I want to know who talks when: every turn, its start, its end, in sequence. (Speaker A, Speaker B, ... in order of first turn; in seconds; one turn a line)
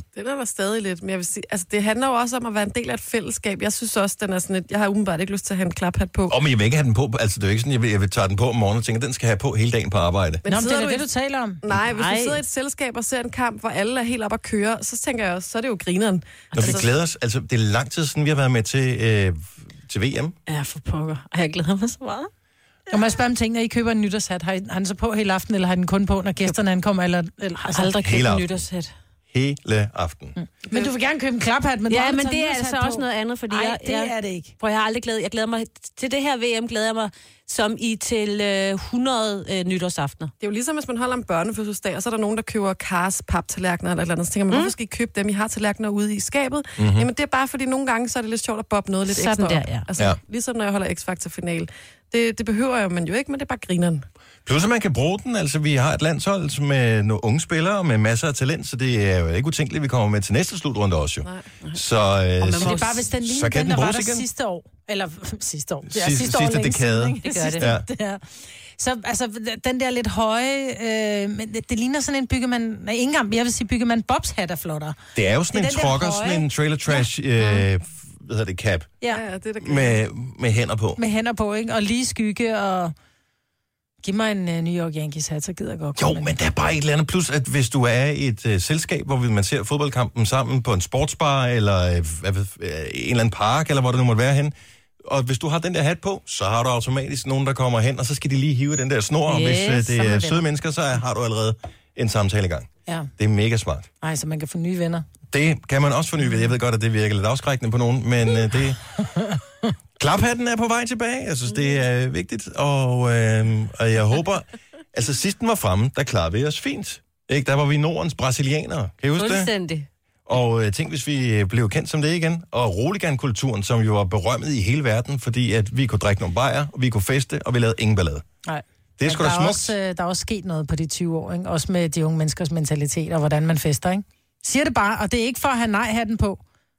Speaker A: 0.1-6.4
Speaker B: 6.3-10.4
Speaker A: 10.4-11.1
Speaker C: 10.5-11.7
Speaker A: 11.6-16.9
Speaker D: 11.9-12.4
Speaker D: 16.5-16.8
Speaker B: 16.6-20.4
Speaker D: 20.5-22.3
Speaker C: 22.9-27.9
Speaker D: 27.6-28.9
Speaker B: 28.0-28.6
Speaker B: 29.3-30.4
Speaker C: 30.4-34.5
Speaker D: 31.9-40.3
Speaker A: 40.4-54.1
Speaker B: 46.8-47.1
Speaker D: 49.1-49.9
Speaker B: 54.5-64.3
Speaker D: 62.4-63.1
Speaker C: 62.6-75.0
Speaker B: 65.9-67.9
Speaker D: 67.2-67.7
Speaker B: 75.1-79.0
Speaker C: 75.5-77.1
Speaker A: 79.1-80.0
Speaker B: 79.6-81.0
Speaker C: 81.0-82.9
Speaker C: 84.0-86.4
Speaker B: 86.0-103.9
Speaker D: 99.3-100.4
Speaker C: 104.0-105.1
Speaker B: 105.3-109.3
Speaker B: 110.0-119.5
Speaker D: 119.2-119.9
Speaker B: 120.3-128.2
Speaker C: 128.4-136.4
Speaker B: 129.0-129.8